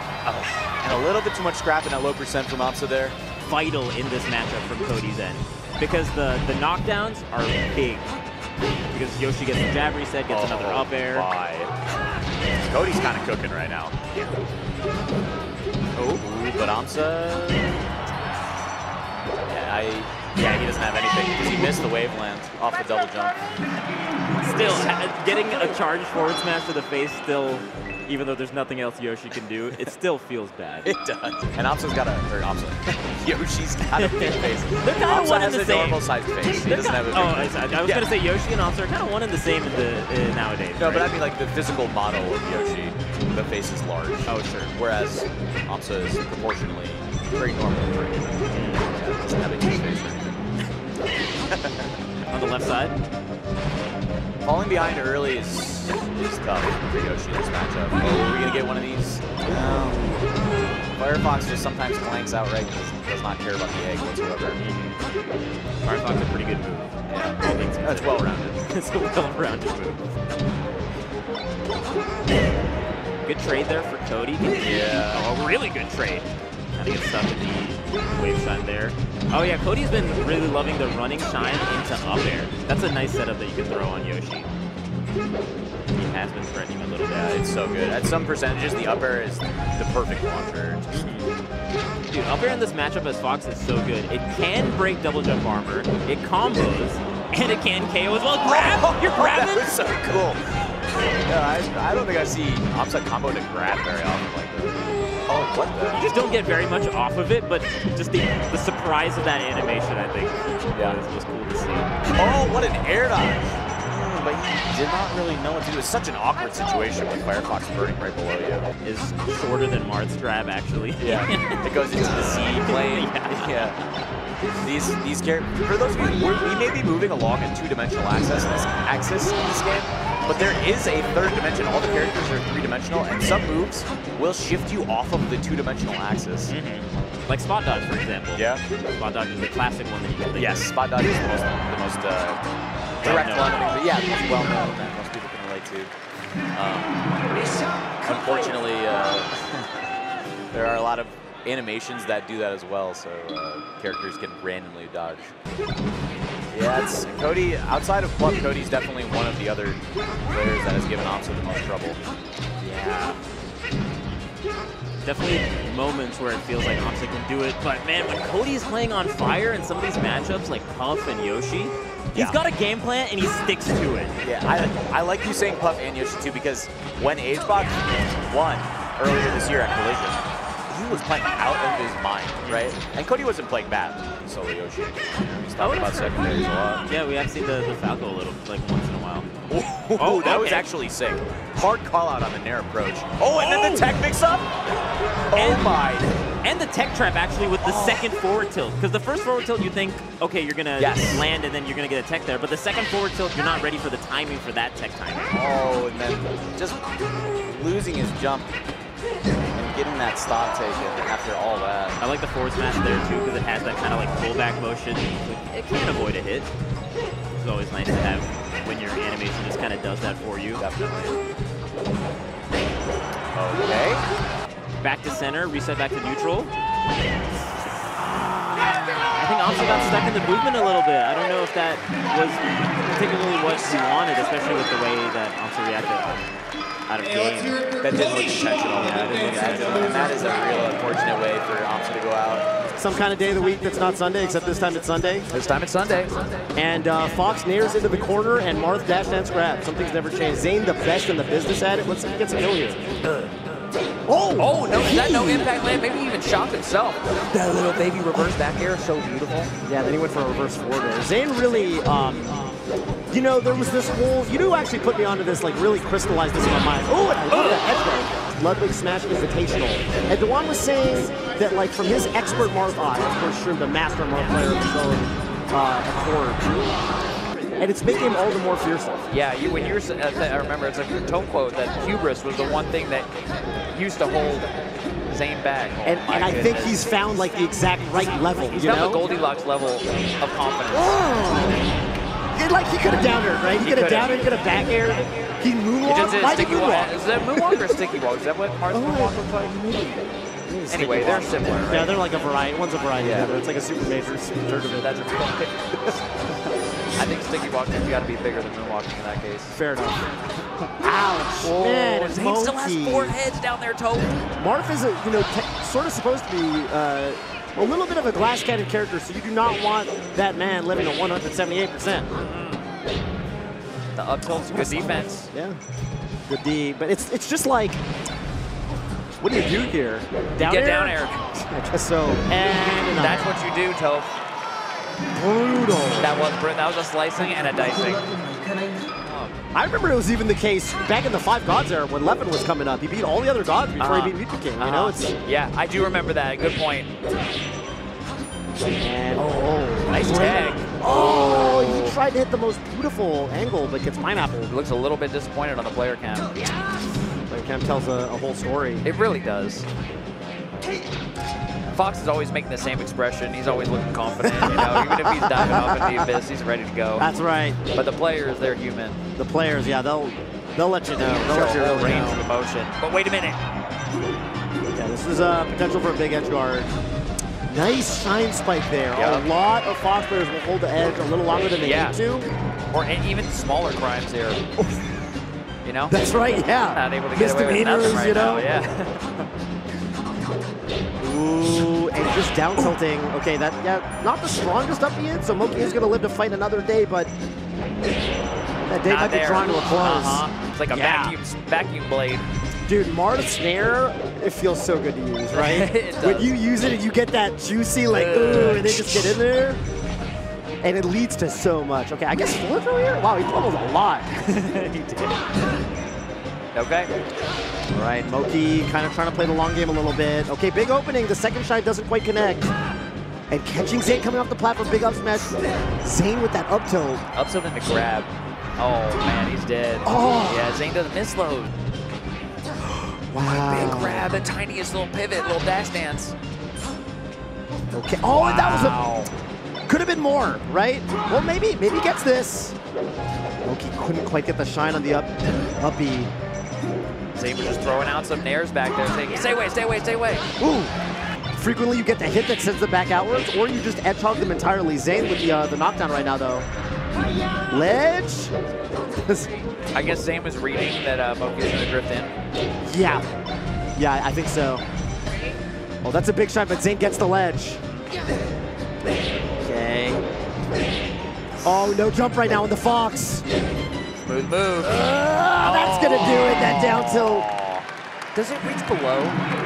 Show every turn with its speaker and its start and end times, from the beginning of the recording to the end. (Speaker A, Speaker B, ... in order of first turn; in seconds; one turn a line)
Speaker A: 0.2-3.1
Speaker B: 3.4-8.1
Speaker B: 8.9-11.3
Speaker A: 10.3-11.7
Speaker A: 12.7-14.1
Speaker B: 15.9-16.2
Speaker A: 16.1-17.8
Speaker A: 19.5-23.4
Speaker B: 24.4-30.9
Speaker A: 24.6-24.9
Speaker A: 30.8-38.1
Speaker B: 33.9-41.1
Speaker A: 40.8-50.4
Speaker B: 44.3-44.7
Speaker B: 48.5-48.8
Speaker A: 51.5-51.9
Speaker B: 52.3-53.0
Speaker A: 54.4-60.3
Speaker A: 60.9-64.6
Speaker B: 64.6-65.0
Speaker B: 65.8-70.2
Speaker A: 67.1-68.6
Speaker B: 73.2-84.5
Speaker A: 74.6-75.3
Speaker B: 85.9-87.4
Speaker A: 87.1-91.0
Speaker B: 90.9-91.3
Speaker B: 92.1-99.7
Speaker A: 98.4-100.4
Speaker A: 101.2-106.0
Speaker B: 105.9-111.9
Speaker A: 110.7-111.0
Speaker A: 112.2-118.7
Speaker B: 118.8-123.7
Speaker A: 121.0-123.8
Speaker A: 124.6-136.5
Speaker B: 136.5-140.7
Speaker A: 138.3-138.6
Speaker A: 140.3-142.4
Speaker A: 143.0-145.9
Speaker B: 143.0-143.8
Speaker A: 146.5-147.1
Speaker A: 148.0-149.7
Speaker A: 150.5-155.3
Speaker A: 156.5-162.0
Speaker B: 162.6-163.2
Speaker B: 165.0-174.1
Speaker A: 174.2-186.9
Speaker B: 182.4-182.7
Speaker B: 185.6-186.2
Speaker B: 186.8-189.3
Speaker A: 189.5-194.5
Speaker B: 190.0-190.7
Speaker B: 193.3-193.9
Speaker A: 195.3-196.1
Speaker B: 195.3-195.7
Speaker B: 196.4-205.4
Speaker A: 197.6-198.1
Speaker A: 200.8-201.2
Speaker A: 205.3-206.8
Speaker A: 207.4-208.5
Speaker A: 209.5-212.0
Speaker B: 212.0-216.5
Speaker B: 217.3-220.6
Speaker A: 220.6-221.2
Speaker A: 223.3-224.1
Speaker B: 224.8-226.5
Speaker B: 228.0-236.2
Speaker B: 236.9-237.8
Speaker A: 237.8-242.4
Speaker B: 238.7-240.2
Speaker C: 242.7-245.3
Speaker D: 245.3-246.1
Speaker C: 246.5-252.8
Speaker D: 253.1-253.4
Speaker C: 254.1-255.5
Speaker D: 254.4-259.5
Speaker C: 259.6-262.4
Speaker C: 263.1-276.6
Speaker D: 267.3-267.6
Speaker C: 277.6-279.1
Speaker D: 279.1-283.1
Speaker D: 283.7-284.5
Speaker D: 285.1-286.8
Speaker C: 285.8-289.1
Speaker D: 288.5-291.0
Speaker C: 290.7-291.6
Speaker C: 292.3-297.6
Speaker D: 293.6-294.3
Speaker D: 295.8-299.2
Speaker C: 298.7-305.0
Speaker D: 300.7-302.0
Speaker A: 303.0-303.3
Speaker D: 304.7-305.5
Speaker D: 307.0-309.5
Speaker C: 309.5-310.1
Speaker C: 310.8-313.2
Speaker D: 311.4-314.2
Speaker C: 314.4-322.1
Speaker D: 322.2-322.6
Speaker D: 323.9-325.3
Speaker C: 324.4-325.6
Speaker C: 326.3-327.8
Speaker C: 329.2-333.3
Speaker D: 330.4-331.2
Speaker D: 332.6-334.1
Speaker C: 335.1-336.3
Speaker D: 336.0-338.2
Speaker D: 339.0-339.3
Speaker C: 339.5-345.1
Speaker D: 343.8-346.9
Speaker C: 348.8-354.5
Speaker D: 349.9-352.0
Speaker D: 354.5-356.3
Speaker C: 357.3-358.9
Speaker D: 358.8-359.6
Speaker D: 361.7-367.1
Speaker C: 364.2-366.1
Speaker C: 367.0-367.6
Speaker D: 367.7-369.0
Speaker C: 369.2-372.2
Speaker D: 371.0-373.4
Speaker C: 374.7-376.7
Speaker C: 377.5-382.3
Speaker D: 378.9-379.2
Speaker D: 381.6-382.0
Speaker D: 382.7-384.4
Speaker C: 384.6-384.9
Speaker D: 385.6-389.2
Speaker C: 385.9-388.4
Speaker C: 391.0-397.1
Speaker C: 398.7-401.1
Speaker D: 398.8-402.2
Speaker C: 402.7-409.6
Speaker D: 405.3-406.3
Speaker D: 407.9-409.2
Speaker C: 410.6-414.3
Speaker D: 414.3-415.1
Speaker D: 416.5-416.9
Speaker C: 417.7-422.5
Speaker C: 423.3-427.0
Speaker D: 427.1-431.5
Speaker C: 429.8-430.5
Speaker C: 433.1-434.1
Speaker D: 433.2-436.1
Speaker C: 437.7-438.8
Speaker D: 438.1-439.1
Speaker C: 439.6-442.6
Speaker C: 443.4-446.1
Speaker D: 447.1-450.3
Speaker C: 450.4-450.7
Speaker C: 451.4-456.4
Speaker C: 457.5-458.3
Speaker C: 459.0-459.3
Speaker D: 459.7-462.1
Speaker C: 462.6-463.1
Speaker C: 463.7-464.6
Speaker C: 465.8-467.6
Speaker C: 469.4-470.0
Speaker C: 471.4-473.2
Speaker D: 471.5-471.8
Speaker D: 474.1-474.9
Speaker C: 474.6-477.3
Speaker D: 475.4-477.6
Speaker D: 478.1-479.2